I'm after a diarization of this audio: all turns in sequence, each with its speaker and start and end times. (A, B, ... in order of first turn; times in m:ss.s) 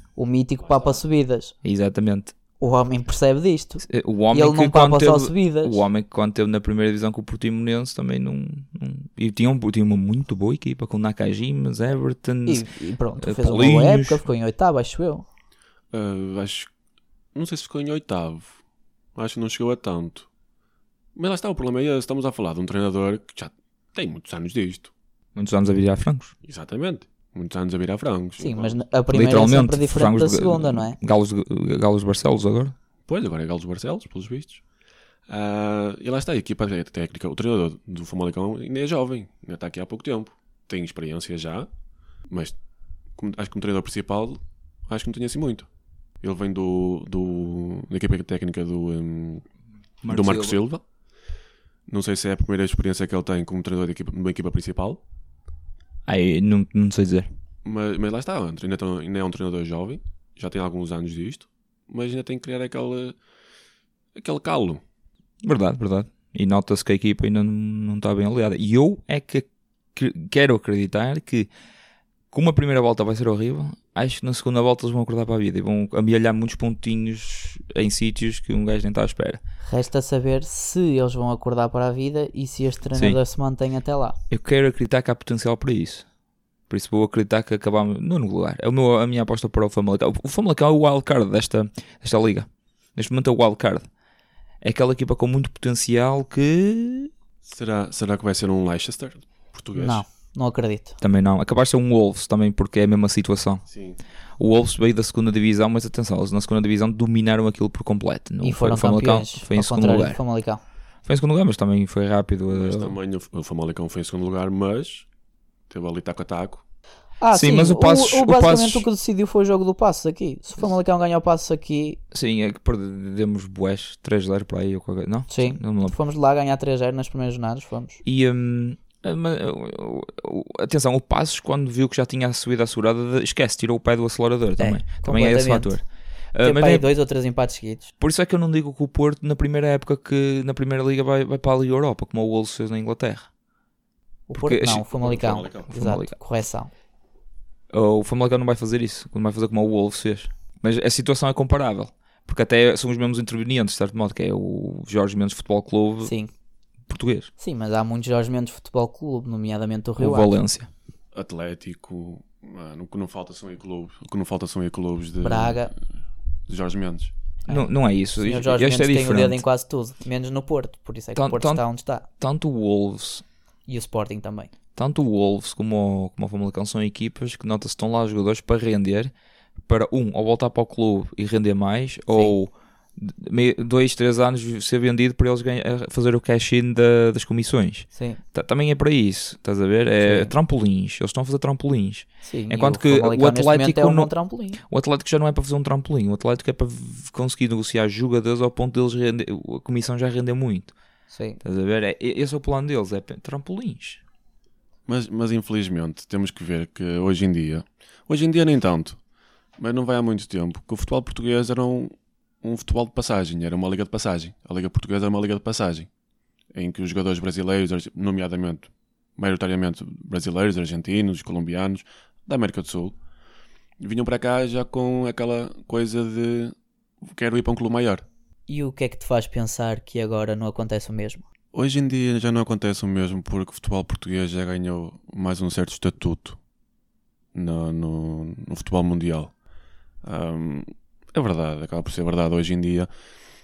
0:00.2-0:01.5 A
0:00.6-0:01.0 B
0:01.6-0:02.3 C
0:02.6-0:05.8 A
0:03.9-0:12.7 C
0:12.5-0:15.2 A
0:13.2-0:14.2 C
0:15.9-0:16.7 B
0:17.4-0:18.6 B
0:19.2-0:20.3 B
0:21.2-0:24.9 B
0:25.4-0:26.3 C
0:26.4-0:28.8 B
0:28.4-0:31.0 A
0:29.1-0:32.7 C
0:33.1-0:34.6 B
0:35.3-0:41.7 B
0:42.3-0:42.6 B
0:43.2-0:45.7 B
0:46.2-0:49.4 B
0:50.0-0:50.6 C
0:50.1-0:50.8 B
0:51.9-0:55.0 B
0:56.1-0:57.3 C
0:57.6-1:03.2 B
1:04.2-1:04.8 B
1:05.4-1:11.5 C
1:12.3-1:19.4 C
1:19.6-1:24.2 A
1:24.3-1:26.0 C
1:26.7-1:33.9 C
1:34.6-1:37.1 C
1:37.4-1:40.0 B
1:39.8-1:41.0 A
1:41.0-1:43.6 C
1:43.7-1:44.0 B
1:44.4-1:50.2 C
1:48.4-1:50.6 A
1:51.1-1:53.0 C
1:52.5-1:55.1 B
1:55.7-1:56.6 B
1:57.2-2:02.0 A
1:57.3-1:58.9 C
2:02.1-2:06.0 C
2:05.3-2:08.0 A
2:08.0-2:15.8 C
2:14.6-2:15.8 A
2:16.3-2:16.9 C
2:16.4-2:17.9 A
2:18.0-2:23.3 C
2:24.3-2:26.7 A
2:24.4-2:24.9 C
2:25.0-2:25.7 B
2:25.7-2:26.1 C
2:27.7-2:36.1 C
2:36.0-2:36.3 A
2:36.9-2:37.3 C
2:37.4-2:40.3 A
2:40.0-2:40.7 C
2:41.1-2:45.7 B
2:45.2-2:45.7 A
2:46.5-2:47.1 B
2:47.5-2:52.1 A
2:47.5-2:49.4 C
2:51.2-2:51.6 C
2:52.2-2:53.2 C
2:53.7-2:54.5 A
2:54.8-2:59.1 C
2:59.7-3:14.1 C
3:07.9-3:08.2 A
3:10.0-3:10.3 A
3:12.2-3:14.6 A
3:14.6-3:20.7 C
3:21.1-3:21.4 A
3:21.4-3:24.0 C
3:24.9-3:29.0 B
3:29.6-3:35.9 B
3:36.5-3:43.0 B
3:43.8-3:48.0 B
3:48.5-3:51.2 A
3:51.5-3:56.4 B
3:57.3-3:59.3 B
4:00.0-4:02.9 B